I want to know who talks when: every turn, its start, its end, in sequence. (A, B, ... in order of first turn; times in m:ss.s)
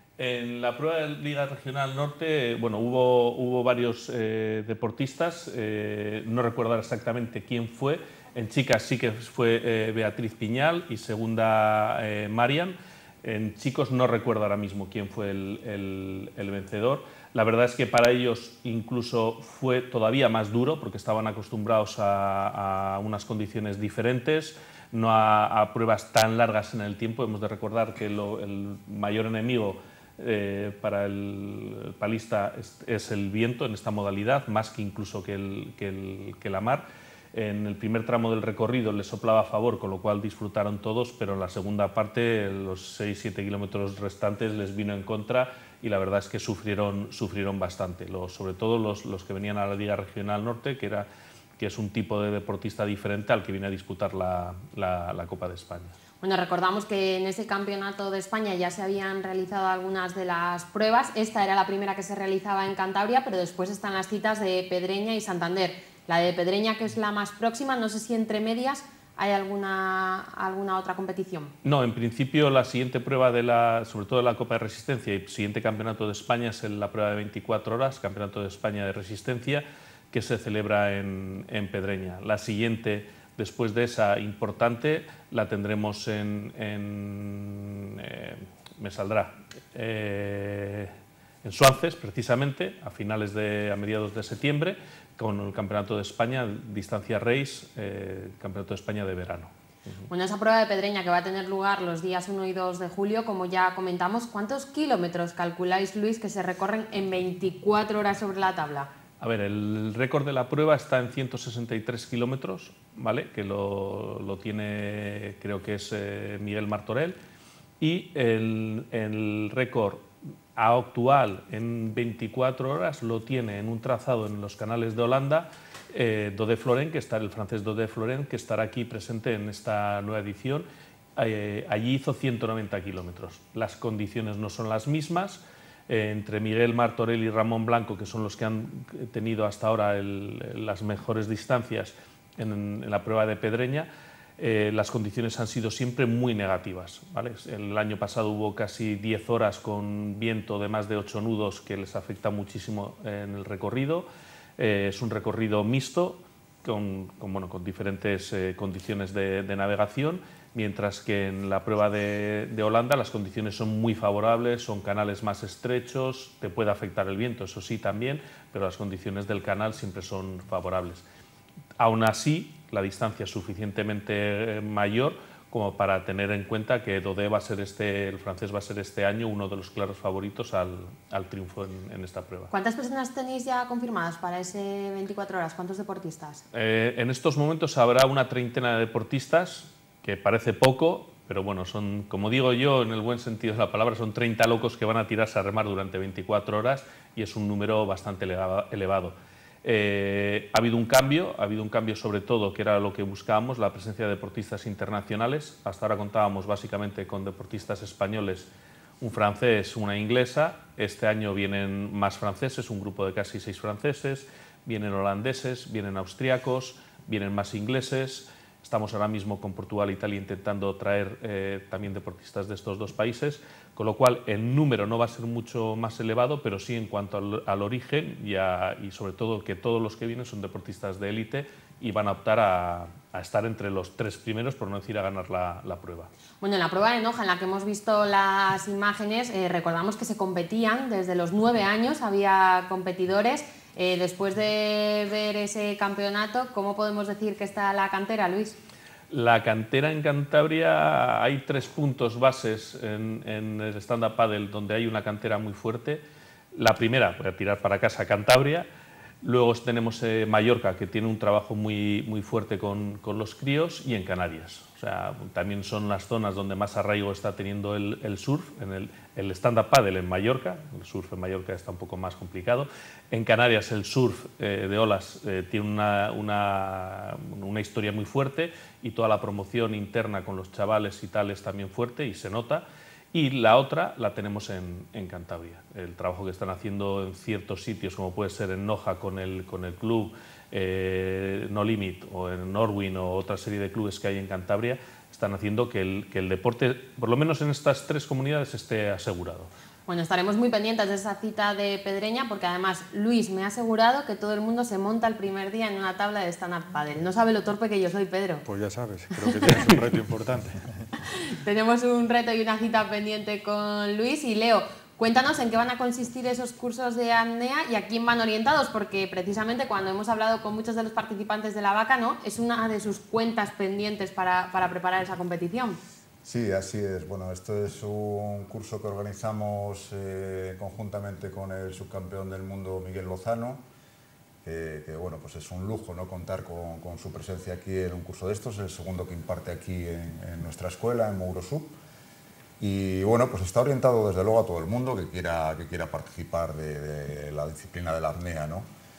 0:00.2-0:55.9 A
0:56.2-1:11.5 B
1:11.6-1:30.9 A
1:31.4-1:39.5 A
1:40.1-1:48.9 B
1:49.2-1:57.2 A
1:57.8-2:10.6 A
2:11.2-2:34.1 A
2:34.6-2:51.0 A
2:51.8-3:02.5 A
3:02.5-3:06.4 B
3:06.5-3:28.5 A
3:29.0-3:56.1 A
3:56.4-4:08.6 B
4:09.1-4:18.7 A
4:19.2-4:59.5 A
4:59.9-5:08.4 B
5:08.4-5:10.8 C
5:11.1-5:25.8 B
5:26.2-5:33.6 D
5:34.4-5:41.8 D
5:42.6-5:48.6 D